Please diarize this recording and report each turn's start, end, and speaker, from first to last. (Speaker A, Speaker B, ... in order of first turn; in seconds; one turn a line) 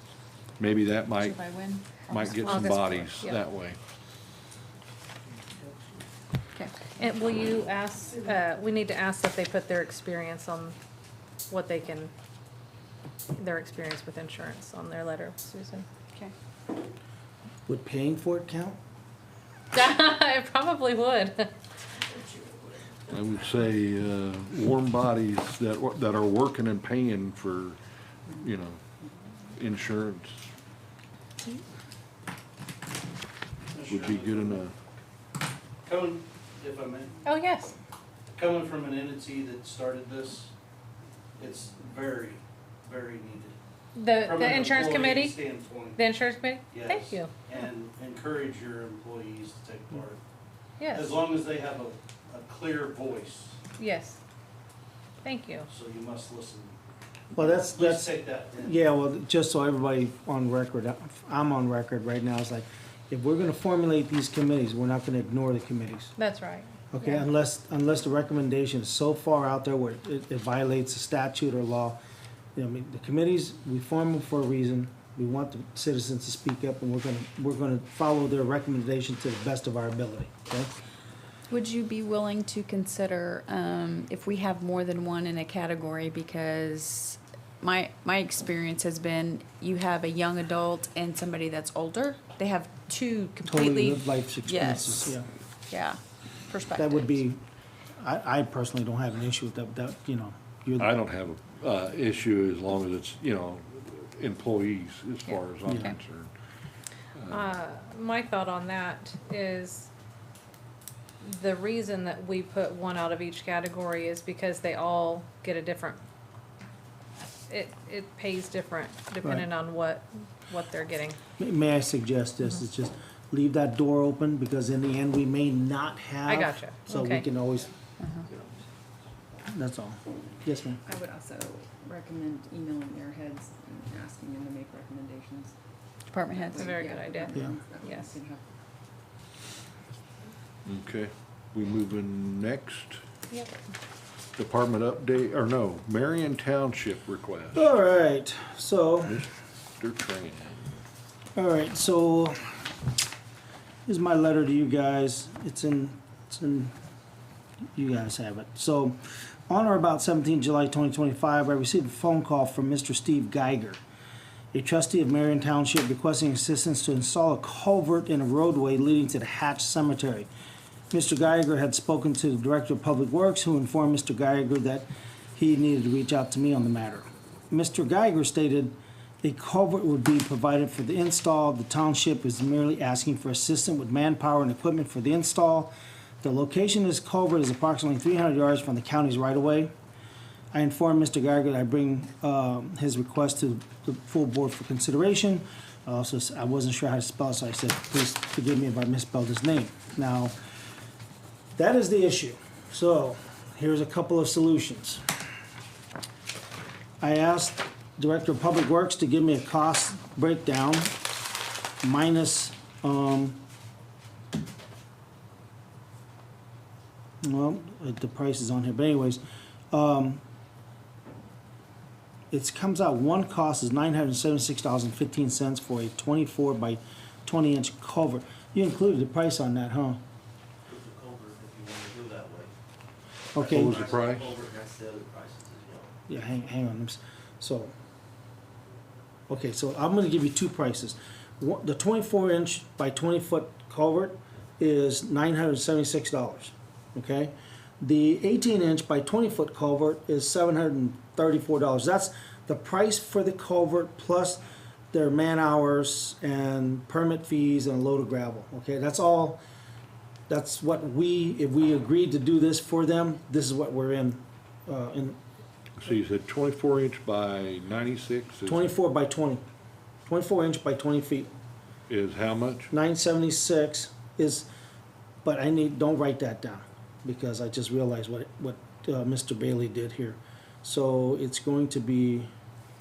Speaker A: 0.6-3.8
Speaker B: 1.2-2.9
Speaker C: 2.4-3.4
Speaker C: 7.0-10.8
Speaker C: 11.5-12.1
Speaker C: 13.4-15.9
Speaker D: 17.7-18.8
Speaker C: 19.7-21.5
Speaker A: 23.1-27.8
Speaker A: 28.3-28.8
Speaker A: 29.5-30.4
Speaker E: 33.7-34.6
Speaker A: 33.9-34.7
Speaker E: 35.9-37.2
Speaker C: 37.2-37.7
Speaker E: 38.3-40.5
Speaker E: 41.4-43.6
Speaker C: 44.0-45.4
Speaker E: 44.2-46.0
Speaker C: 46.0-47.3
Speaker E: 46.7-50.2
Speaker C: 50.8-51.1
Speaker E: 50.9-53.6
Speaker C: 53.8-54.2
Speaker C: 55.2-55.7
Speaker E: 55.7-56.8
Speaker D: 57.4-66.1
Speaker E: 57.4-58.8
Speaker C: 66.2-66.7
Speaker D: 66.9-72.0
Speaker D: 72.5-80.8
Speaker B: 81.5-95.2
Speaker D: 93.5-95.3
Speaker B: 95.7-97.2
Speaker D: 96.8-97.4
Speaker D: 98.0-101.0
Speaker A: 100.8-106.3
Speaker D: 105.7-105.9
Speaker A: 107.2-107.5
Speaker C: 107.3-109.9
Speaker C: 111.2-116.0
Speaker C: 117.5-121.2
Speaker D: 121.4-127.7
Speaker C: 126.3-127.3
Speaker B: 128.0-128.3
Speaker D: 129.5-130.8
Speaker F: 130.8-135.5
Speaker B: 136.1-136.8
Speaker F: 136.4-138.4
Speaker C: 136.6-138.2
Speaker A: 140.7-143.0
Speaker A: 144.4-147.7
Speaker D: 147.5-149.2
Speaker A: 149.1-150.6
Speaker D: 151.4-152.4
Speaker D: 153.9-156.7
Speaker D: 157.8-163.8
Speaker D: 164.5-170.3
Speaker D: 170.9-189.7
Speaker D: 190.5-200.3
Speaker D: 201.6-205.0
Speaker D: 207.0-210.9
Speaker D: 211.8-213.4
Speaker D: 217.2-220.2
Speaker D: 222.3-230.0
Speaker G: 230.7-232.5
Speaker D: 233.3-233.9
Speaker A: 233.4-234.3
Speaker G: 233.4-235.9
Speaker D: 236.1-237.7
Speaker D: 239.3-259.4
Speaker D: 260.3-265.2
Speaker A: 265.8-268.7
Speaker D: 268.5-269.4
Speaker D: 270.1-271.3
Speaker A: 271.9-272.7
Speaker D: 272.7-274.5
Speaker D: 275.2-282.3